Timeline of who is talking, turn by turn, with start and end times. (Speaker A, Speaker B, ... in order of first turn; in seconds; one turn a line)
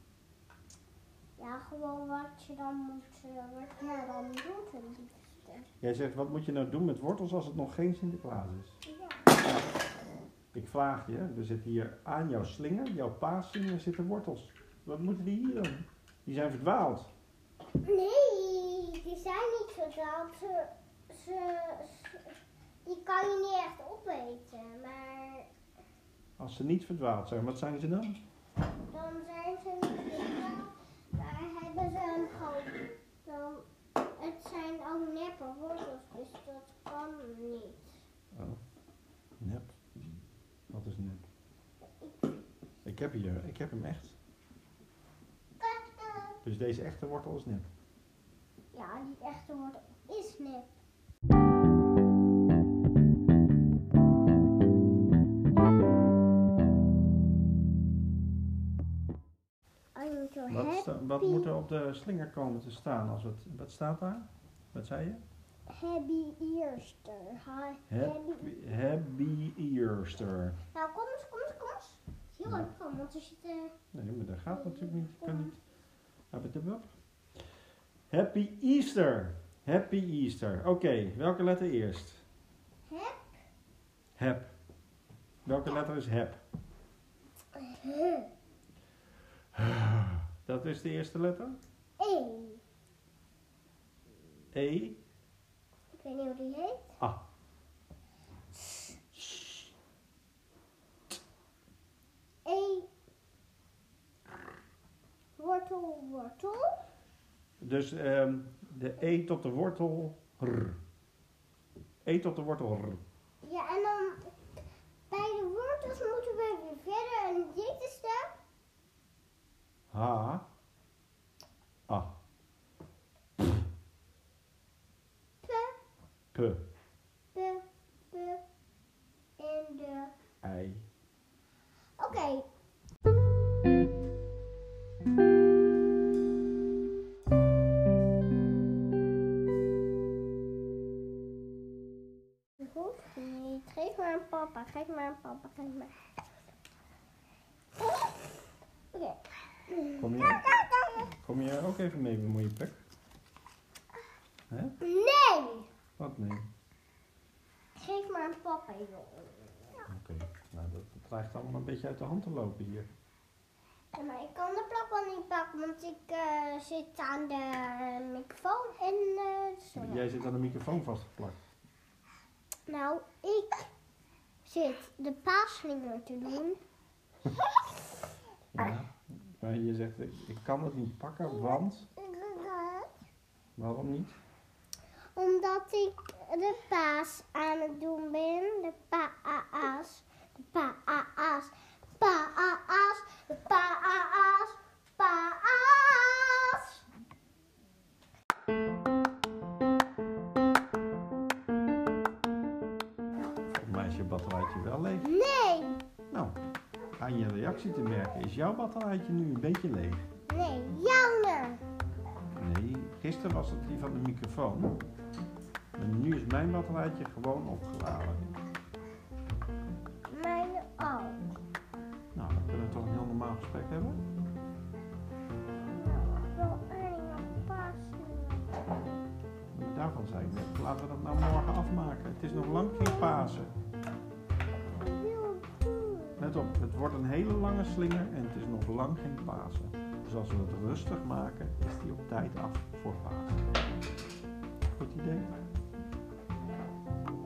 Speaker A: 1.4-5.7
Speaker B: 5.8-8.8
Speaker A: 8.9-9.2
Speaker B: 10.5-17.1
Speaker A: 17.8-25.5
Speaker B: 26.4-28.2
Speaker A: 28.9-33.6
Speaker A: 34.2-38.0
Speaker B: 38.3-38.6
Speaker B: 39.4-39.8
Speaker B: 40.7-41.2
Speaker A: 42.0-42.3
Speaker B: 42.8-44.2
Speaker A: 45.6-46.4
Speaker B: 46.4-47.7
Speaker A: 48.7-50.8
Speaker A: 59.9-61.5
Speaker B: 60.5-65.2
Speaker A: 65.7-68.5
Speaker B: 67.9-70.6
Speaker A: 70.7-73.7
Speaker B: 73.9-75.6
Speaker A: 74.5-75.5
Speaker B: 76.3-76.9
Speaker B: 78.1-82.2
Speaker A: 82.9-83.3
Speaker B: 84.2-84.5
Speaker B: 85.4-86.4
Speaker A: 87.5-88.3
Speaker B: 89.5-91.6
Speaker A: 92.0-92.6
Speaker B: 94.5-95.0
Speaker A: 95.9-96.9
Speaker A: 98.5-99.3
Speaker A: 102.4-102.9
Speaker A: 105.4-106.8
Speaker B: 107.6-110.8
Speaker B: 112.0-113.0
Speaker A: 113.4-114.3
Speaker A: 115.1-118.4
Speaker B: 119.9-120.4
Speaker B: 121.9-122.2
Speaker A: 125.4-125.8
Speaker B: 126.3-126.7
Speaker A: 127.3-128.4
Speaker A: 129.4-130.1
Speaker B: 130.4-130.8
Speaker A: 132.0-132.5
Speaker A: 142.6-145.9
Speaker A: 147.8-148.2
Speaker A: 148.9-151.1
Speaker B: 150.0-152.8
Speaker B: 154.5-154.8
Speaker A: 154.8-155.7
Speaker B: 156.0-156.5
Speaker A: 157.8-159.8
Speaker B: 159.9-162.9
Speaker A: 163.9-170.1
Speaker B: 169.8-171.4
Speaker A: 172.7-173.7
Speaker A: 174.4-176.6
Speaker B: 178.5-181.9
Speaker A: 181.2-182.9
Speaker B: 183.6-184.2
Speaker A: 185.1-196.8
Speaker B: 203.5-205.1
Speaker A: 205.0-205.8
Speaker B: 206.1-206.4
Speaker B: 207.0-210.0
Speaker A: 210.3-211.6
Speaker B: 212.4-214.8
Speaker B: 215.8-218.3
Speaker A: 220.1-221.3
Speaker B: 222.1-224.0
Speaker A: 225.7-228.5
Speaker B: 229.5-233.5
Speaker A: 232.3-233.2
Speaker A: 234.8-236.3
Speaker B: 236.2-243.4
Speaker B: 244.8-245.3